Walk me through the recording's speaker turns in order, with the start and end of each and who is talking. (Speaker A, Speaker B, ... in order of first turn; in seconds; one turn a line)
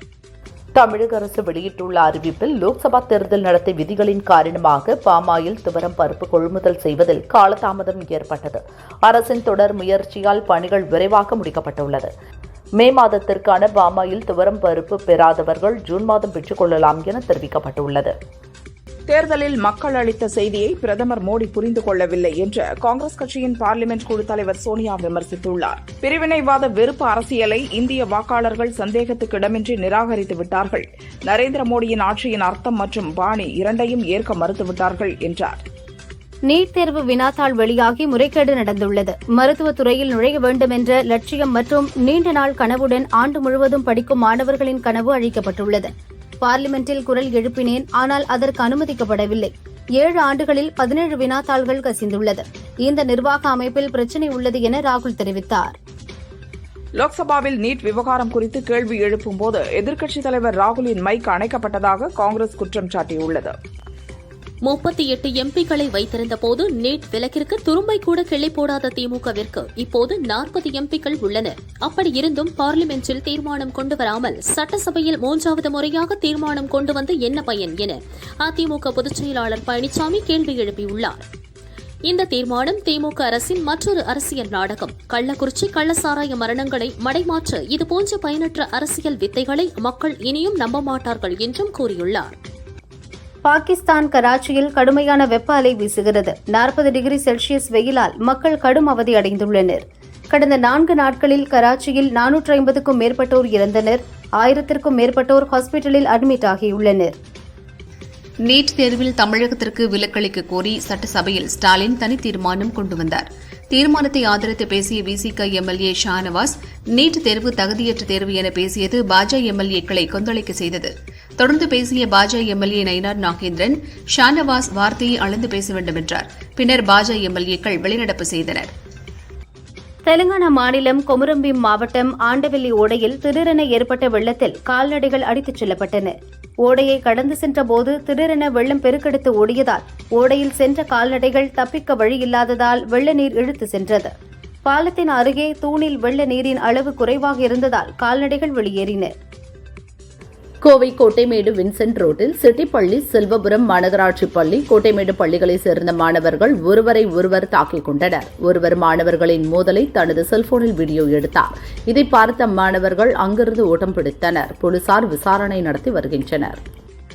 Speaker A: 0.8-12.1
Speaker A: 12.8-18.1
Speaker B: 19.1-35.6
Speaker C: 36.5-45.9
Speaker C: 46.4-55.8
Speaker B: 57.0-63.5
Speaker D: 64.6-81.2
Speaker D: 82.1-92.3
Speaker C: 93.5-107.1
Speaker E: 108.5-128.7
Speaker C: 130.1-144.1
Speaker C: 144.7-149.1
Speaker A: 150.6-166.6